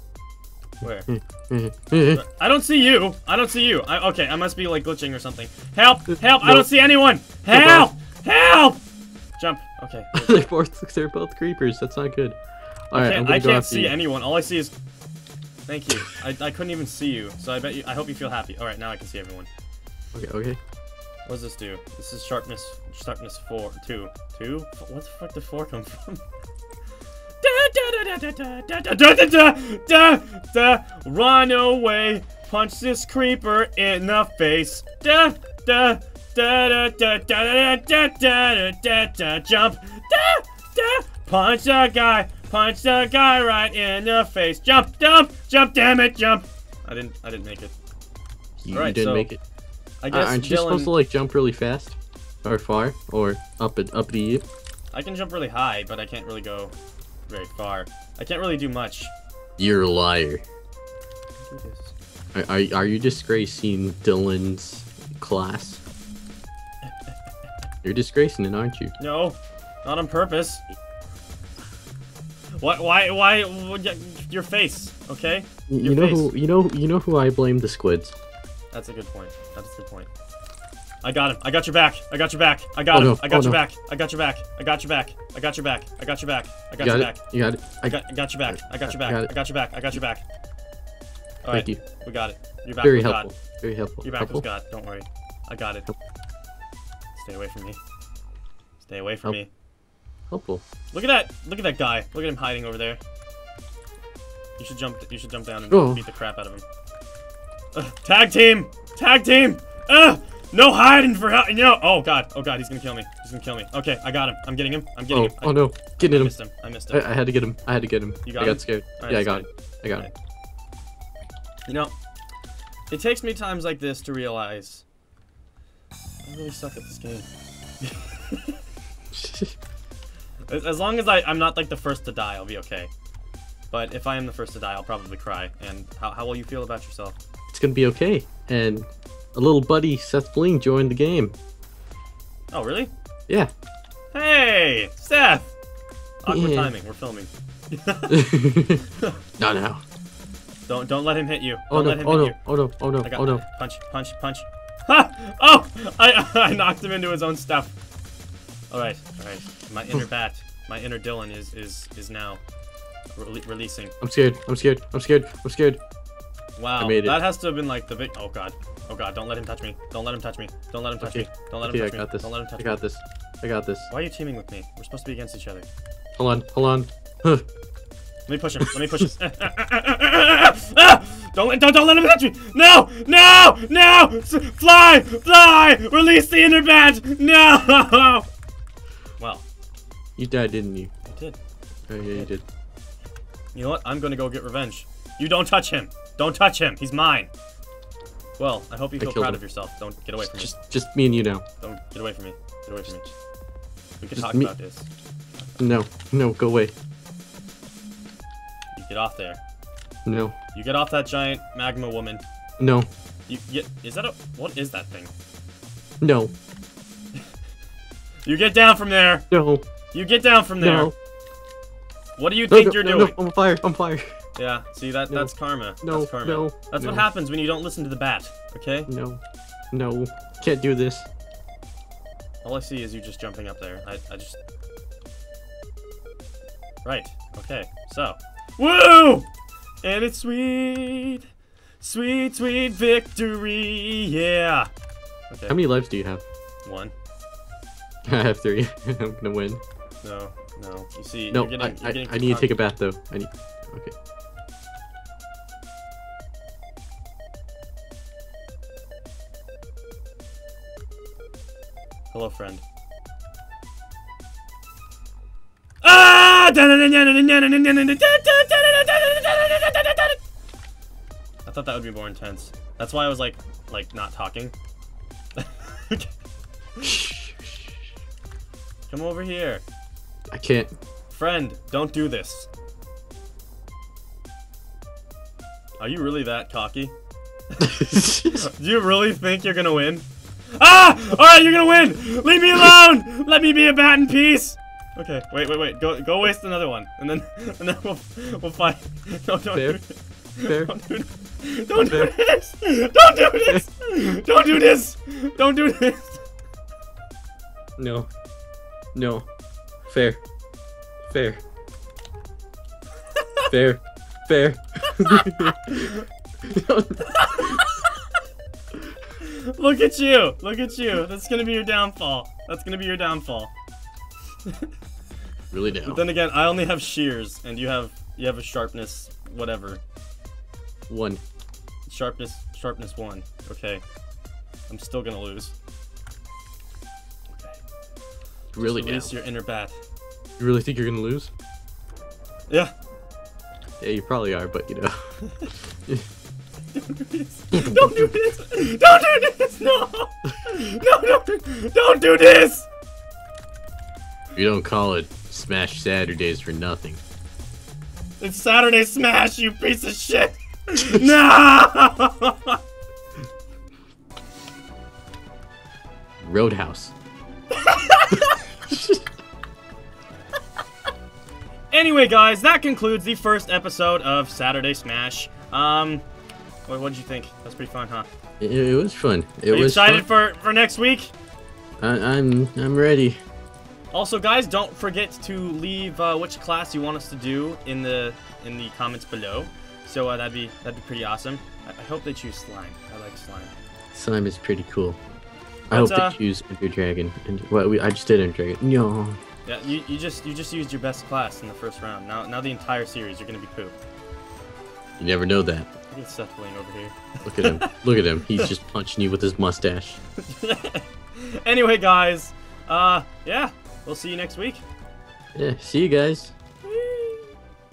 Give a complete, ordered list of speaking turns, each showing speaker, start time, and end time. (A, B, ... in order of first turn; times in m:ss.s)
0:00.8-0:01.1 A
0:01.1-0:02.2 B
0:02.1-0:08.8 A
0:06.4-0:06.7 B
0:07.5-0:07.9 B
0:09.4-0:10.4 A
0:10.1-0:12.4 B
0:12.9-0:14.0 B
0:12.9-0:14.7 A
0:15.7-0:19.5 A
0:20.1-0:20.6 B
0:21.2-0:26.2 A
0:27.4-0:47.7 A
0:48.6-0:49.4 B
0:48.7-0:49.3 A
0:50.0-0:50.9 A
0:50.1-0:54.4 B
0:54.9-0:56.7 A
0:57.3-0:59.1 A
0:59.6-1:00.4 B
1:01.4-1:01.9 A
1:02.3-1:05.8 B
1:07.8-1:08.9 B
1:09.0-1:10.6 A
1:12.6-1:16.3 A
1:15.7-1:18.1 B
1:18.7-1:20.1 A
1:21.0-1:27.2 A
1:22.9-1:23.6 B
1:26.8-1:28.0 B
1:27.8-1:30.2 A
1:28.7-1:29.3 B
1:31.4-1:33.3 A
1:31.5-1:31.8 B
1:32.8-1:34.4 B
1:34.0-1:35.9 A
1:37.2-1:37.8 A
1:38.8-1:39.5 A
1:40.3-1:40.6 B
1:40.9-1:43.0 A
1:44.6-1:46.6 A
1:45.7-1:46.0 B
1:47.7-1:57.1 A
1:55.1-1:56.3 B
1:56.9-2:00.1 B
1:58.2-2:00.1 A
2:01.7-2:01.9 A
2:02.9-2:04.8 A
2:06.2-2:07.3 A
2:07.8-2:08.6 A
2:09.1-2:09.5 B
2:10.5-2:12.9 A
2:13.7-2:17.2 A
2:17.5-2:21.3 B
2:22.5-2:22.9 A
2:24.1-2:25.5 A
2:26.2-2:28.2 A
2:26.3-2:26.7 B
2:28.1-2:28.9 B
2:29.4-2:29.8 B
2:30.7-2:32.4 A
2:31.7-2:33.4 B
2:33.0-2:37.7 A
2:38.7-2:42.4 A
2:43.1-2:43.9 A
2:44.0-2:45.8 B
2:46.6-2:52.8 A
2:46.8-2:47.2 B
2:51.0-2:53.9 B
2:53.9-2:55.6 A
2:56.2-2:57.4 B
2:58.3-3:08.2 A
3:10.2-3:10.9 B
3:11.1-3:11.4 A
3:11.9-3:12.4 B
3:13.5-3:17.3 A
3:18.4-3:20.5 A
3:19.0-3:19.4 B
3:20.2-3:21.4 B
3:21.6-3:23.1 A
3:24.0-3:25.6 A
3:24.1-3:24.5 B
3:25.6-3:26.7 B
3:28.7-3:29.4 A
3:30.0-3:30.3 B
3:30.5-3:32.2 A
3:32.6-3:32.9 B
3:33.3-3:35.1 A
3:36.0-3:36.3 B
3:38.2-3:39.3 A
3:39.3-3:39.6 B
3:39.9-3:40.9 A
3:40.6-3:40.9 B
3:42.2-3:43.1 A
3:42.5-3:44.2 B
3:44.4-3:48.9 A
3:45.1-3:47.1 B
3:48.9-3:49.2 B
3:49.7-3:51.1 B
3:52.4-3:54.4 A
3:56.8-3:59.3 A
3:59.8-4:01.2 A
4:01.8-4:04.7 A
4:05.3-4:05.6 A
4:05.5-4:06.2 B
4:06.6-4:06.9 A
4:08.0-4:09.6 B
4:10.0-4:12.6 A
4:11.3-4:13.9 B
4:22.1-4:22.6 A
4:25.8-4:30.2 A
4:31.4-4:34.5 A
4:35.4-4:36.1 A
4:36.8-4:37.6 B
4:38.9-4:39.6 A
4:40.3-4:40.7 B
4:41.1-4:42.5 A
4:45.8-4:46.9 A
4:47.6-5:06.2 A
4:47.6-4:48.4 B
4:59.5-4:59.8 B
5:00.4-5:00.7 B
5:01.7-5:02.1 B
5:07.8-5:08.1 B
5:08.9-5:09.2 B
5:09.9-5:10.2 B
5:11.1-5:11.4 B
5:13.1-5:13.5 A
5:13.5-5:17.6 B
5:15.0-5:16.0 A
5:17.0-5:18.0 A
5:19.2-5:23.5 A
5:24.4-5:24.7 A
5:25.5-5:26.0 B
5:25.8-5:29.8 A
5:30.9-5:31.2 B
5:31.9-5:33.8 A
5:34.7-5:35.5 A
5:38.5-5:39.1 B
5:38.6-5:39.8 A
5:40.4-5:41.3 B
5:43.8-5:46.0 B
5:46.7-5:52.7 A
5:47.6-5:48.0 B
5:54.3-5:57.0 B
5:58.2-6:02.6 A
6:06.2-6:06.9 B
6:07.5-6:08.4 A
6:08.7-6:09.0 B
6:11.7-6:16.0 A
6:16.7-6:18.1 A
6:18.4-6:20.0 B
6:19.5-6:21.1 A
6:21.8-6:23.2 B
6:23.9-6:33.5 A
6:33.9-6:35.0 B
6:35.7-6:39.2 B
6:35.7-6:36.2 A
6:39.4-6:43.7 A
6:45.0-6:45.7 B
6:45.9-6:47.7 A
6:47.2-6:50.0 B
6:50.2-6:54.6 A
6:55.3-6:56.3 B
6:56.6-6:57.3 A